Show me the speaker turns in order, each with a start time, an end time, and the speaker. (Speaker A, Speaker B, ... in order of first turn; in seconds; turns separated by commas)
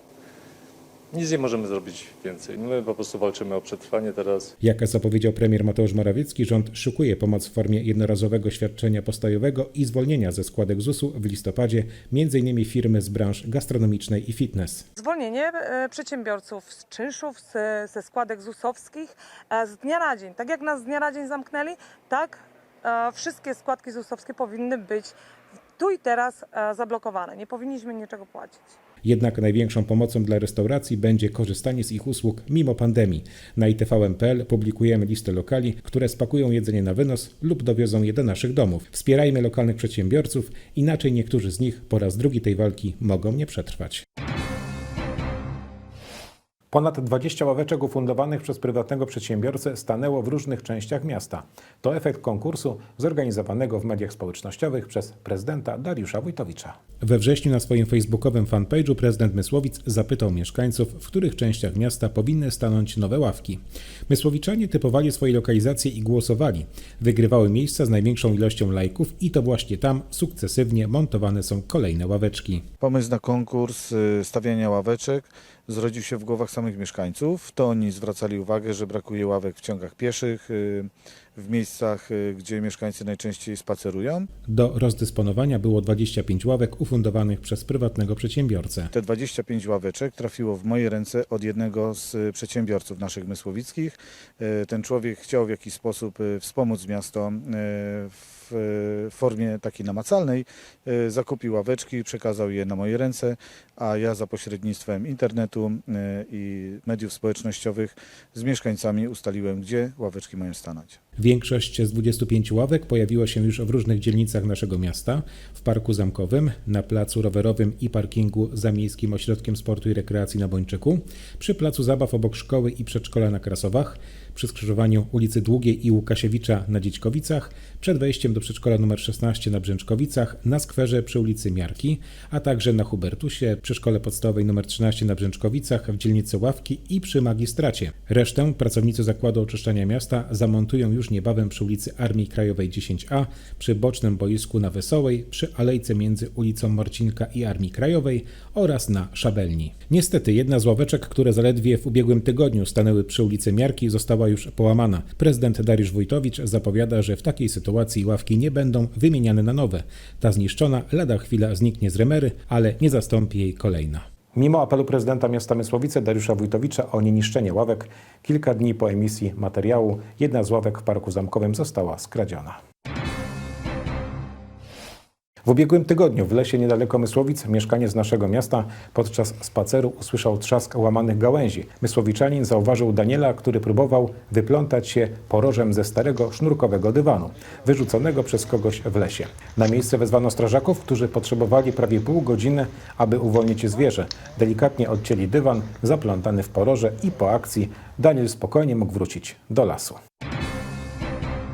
Speaker A: 1.1-4.5, Speaker B: 4.6-14.9, Speaker C: 15.0-25.1, Speaker C: 25.8-28.6, Speaker B: 29.0-44.0, Speaker B: 46.7-72.7, Speaker D: 72.8-84.3, Speaker B: 84.5-88.9, Speaker D: 88.9-111.0, Speaker B: 111.2-172.6, Speaker B: 175.4-200.0